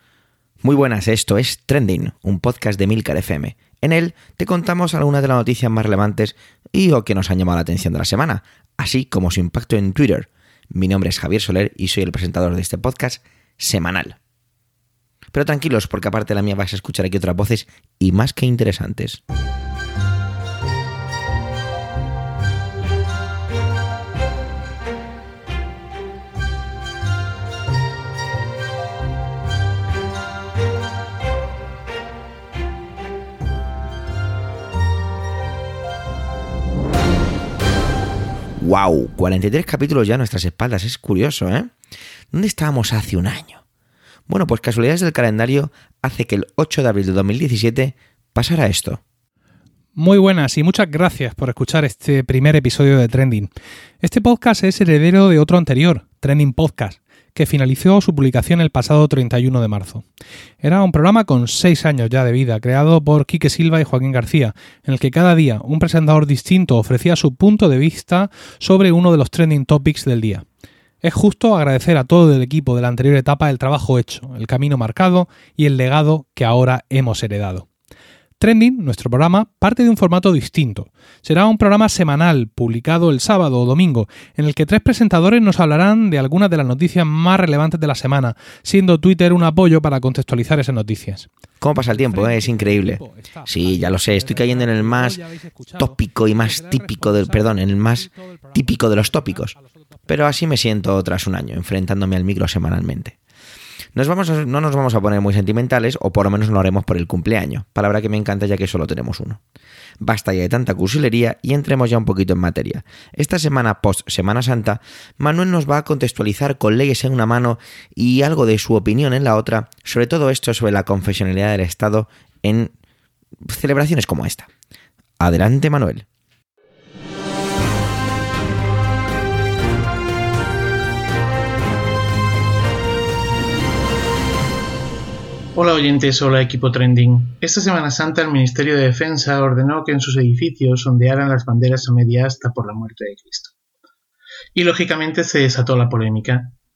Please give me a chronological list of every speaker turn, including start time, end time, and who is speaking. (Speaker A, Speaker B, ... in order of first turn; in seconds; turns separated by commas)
Speaker A: 0.6-14.2, Speaker A: 15.3-19.2, Speaker A: 38.6-41.7, Speaker A: 42.3-43.6, Speaker A: 44.3-49.0, Speaker B: 50.0-53.5, Speaker B: 54.0-60.0, Speaker B: 60.6-70.5, Speaker B: 71.0-77.7, Speaker B: 78.4-91.3, Speaker A: 91.6-95.2, Speaker B: 91.8-100.1, Speaker A: 95.8-99.5, Speaker A: 100.1-103.2, Speaker A: 103.9-109.4, Speaker A: 110.0-122.7, Speaker A: 123.5-124.5, Speaker A: 125.2-126.0, Speaker C: 135.5-143.5, Speaker C: 144.5-146.5